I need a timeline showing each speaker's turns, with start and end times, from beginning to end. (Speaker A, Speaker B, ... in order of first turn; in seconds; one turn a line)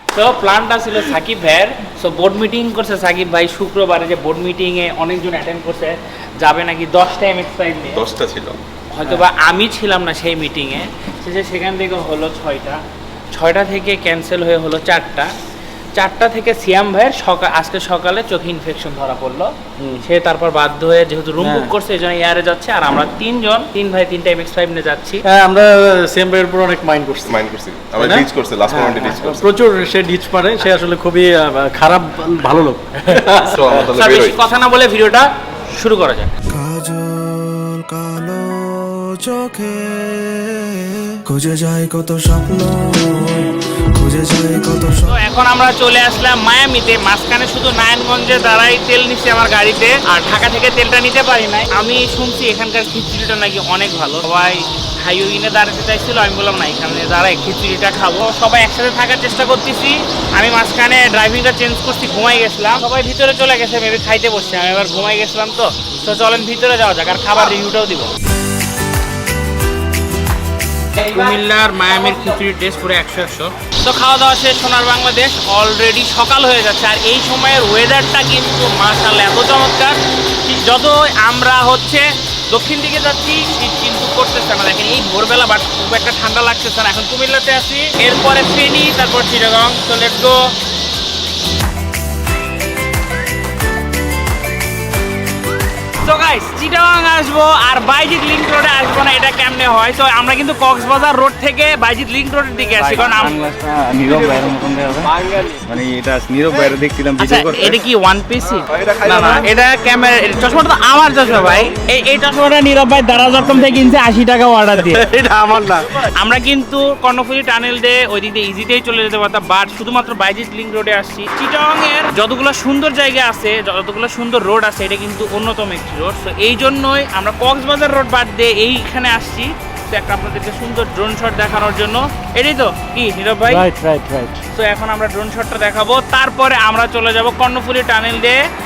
Speaker A: 0.1-8.1
Speaker B: 7.9-8.6
Speaker A: 8.9-15.3
Speaker A: 15.9-25.2
Speaker C: 21.4-21.7
Speaker C: 25.3-33.8
Speaker B: 27.2-29.5
Speaker B: 33.5-34.4
Speaker A: 33.9-36.3
Speaker D: 36.5-45.2
Speaker A: 45.1-68.1
Speaker A: 70.9-90.5
Speaker A: 96.0-103.3
Speaker E: 102.8-107.8
Speaker A: 107.2-115.1
Speaker C: 114.9-115.8
Speaker A: 116.0-133.7
Speaker C: 133.5-134.4
Speaker A: 134.5-138.4